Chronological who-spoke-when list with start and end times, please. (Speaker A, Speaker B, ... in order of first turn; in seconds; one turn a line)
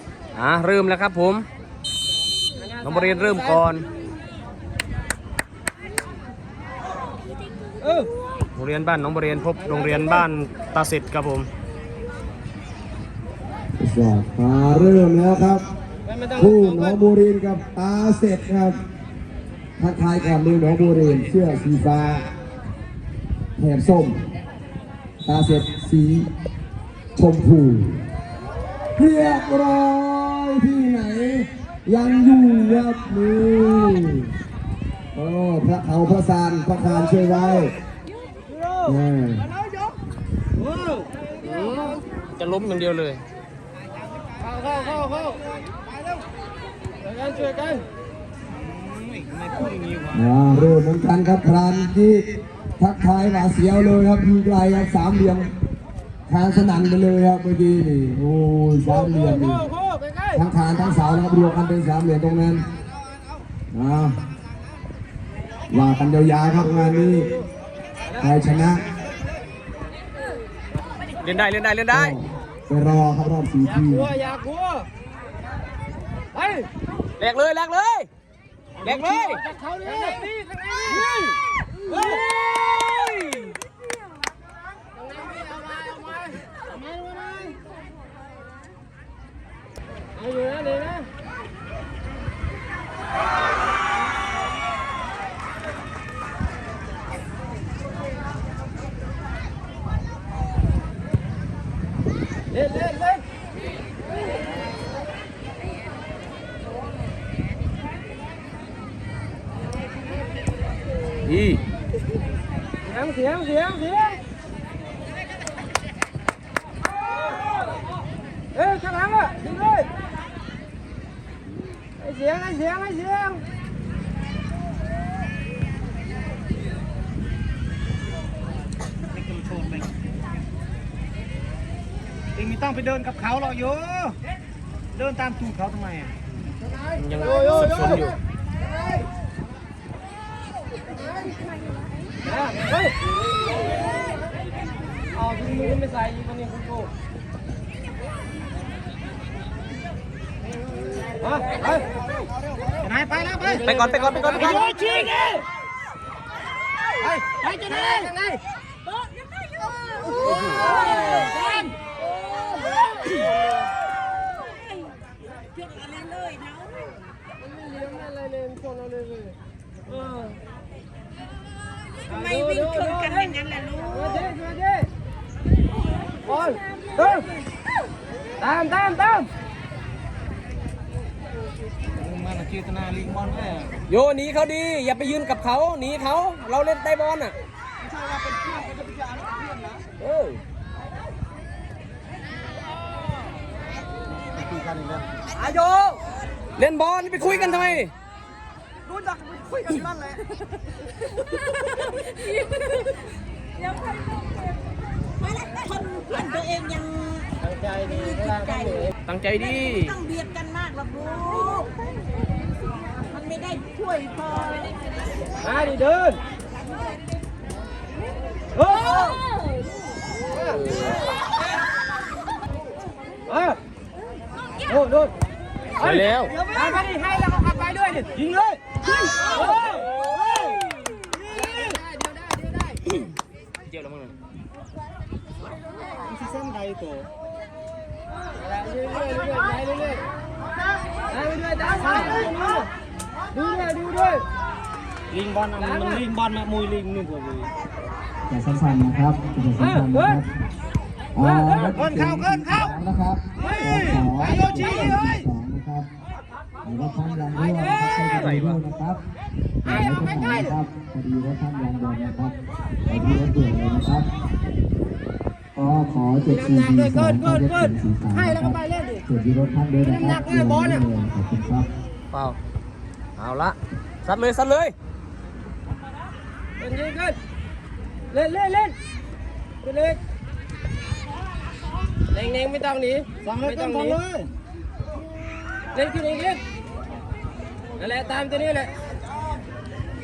Speaker A: 0.3-1.4
Speaker B: 2.6-3.7
Speaker A: 2.8-3.9
Speaker B: 7.8-8.1
Speaker A: 8.6-11.5
Speaker B: 9.7-10.2
Speaker C: 13.8-15.6
Speaker B: 16.1-17.0
Speaker C: 16.4-18.8
Speaker C: 19.8-22.3
Speaker C: 23.6-24.2
Speaker C: 25.2-26.3
Speaker C: 27.1-28.1
Speaker C: 28.9-34.3
Speaker C: 35.1-37.8
Speaker B: 38.5-38.9
Speaker C: 38.8-39.5
Speaker D: 39.5-39.9
Speaker D: 40.6-41.1
Speaker B: 41.3-42.0
Speaker A: 41.5-41.9
Speaker A: 42.4-43.2
Speaker B: 44.4-45.4
Speaker B: 47.0-47.8
Speaker D: 48.5-50.3
Speaker C: 50.1-55.5
Speaker C: 56.3-59.7
Speaker B: 58.9-60.4
Speaker C: 60.3-62.6
Speaker C: 63.7-64.3
Speaker C: 65.7-67.3
Speaker C: 68.2-69.0
Speaker A: 71.2-72.2
Speaker C: 71.9-74.1
Speaker B: 73.7-74.9
Speaker B: 76.3-76.7
Speaker A: 77.2-78.1
Speaker D: 78.8-80.2
Speaker A: 78.8-79.4
Speaker B: 79.4-81.0
Speaker D: 80.9-81.3
Speaker D: 81.9-82.2
Speaker A: 82.7-83.5
Speaker B: 84.9-87.5
Speaker D: 86.7-87.5
Speaker B: 90.1-91.1
Speaker B: 102.5-103.2
Speaker A: 111.2-111.6
Speaker B: 112.8-114.2
Speaker B: 118.5-119.9
Speaker B: 122.0-123.4
Speaker D: 129.1-129.9
Speaker D: 132.3-134.2
Speaker D: 134.9-136.2
Speaker B: 136.6-138.1
Speaker A: 137.0-138.2
Speaker B: 142.2-142.9
Speaker B: 145.1-146.9
Speaker B: 151.2-151.8
Speaker D: 152.6-155.3
Speaker B: 153.5-155.4
Speaker A: 153.5-154.6
Speaker B: 157.0-158.4
Speaker D: 157.4-158.1
Speaker E: 159.4-159.9
Speaker A: 160.2-160.7
Speaker B: 160.6-161.5
Speaker E: 165.5-166.9
Speaker B: 167.4-170.4
Speaker B: 172.1-174.9
Speaker E: 173.4-173.8
Speaker B: 176.2-177.3
Speaker B: 178.4-179.3
Speaker D: 181.9-183.8
Speaker A: 183.9-187.3
Speaker D: 187.8-189.8
Speaker A: 190.0-190.4
Speaker D: 194.2-195.2
Speaker A: 195.4-195.9
Speaker A: 196.6-197.9
Speaker D: 198.9-200.2
Speaker E: 205.3-207.3
Speaker B: 207.4-208.9
Speaker A: 209.1-210.2
Speaker E: 210.1-211.7
Speaker E: 213.1-214.8
Speaker B: 215.4-216.2
Speaker B: 218.6-219.2
Speaker B: 220.3-220.6
Speaker A: 220.5-220.9
Speaker B: 223.3-223.6
Speaker B: 224.7-225.1
Speaker A: 225.8-226.3
Speaker B: 225.8-228.1
Speaker D: 226.3-226.9
Speaker D: 228.2-231.8
Speaker B: 229.3-229.9
Speaker B: 231.3-232.9
Speaker A: 233.6-234.1
Speaker D: 236.0-237.1
Speaker B: 238.4-240.1
Speaker B: 241.1-242.7
Speaker D: 241.7-242.4
Speaker B: 243.3-244.2
Speaker D: 245.1-247.5
Speaker B: 245.6-246.0
Speaker C: 248.3-250.3
Speaker B: 249.6-250.1
Speaker C: 251.1-255.9
Speaker D: 251.7-252.8
Speaker D: 253.5-255.2
Speaker C: 256.6-259.0
Speaker A: 257.5-258.6
Speaker C: 259.6-262.4
Speaker B: 259.6-260.5
Speaker C: 262.9-264.1
Speaker C: 265.6-271.7
Speaker B: 266.2-269.0
Speaker B: 269.8-270.8
Speaker A: 272.1-272.4
Speaker A: 273.2-274.7
Speaker B: 276.6-277.2
Speaker B: 278.1-278.8
Speaker B: 279.6-280.0
Speaker B: 282.1-284.0
Speaker D: 283.2-284.3
Speaker B: 285.7-286.4
Speaker B: 287.8-288.7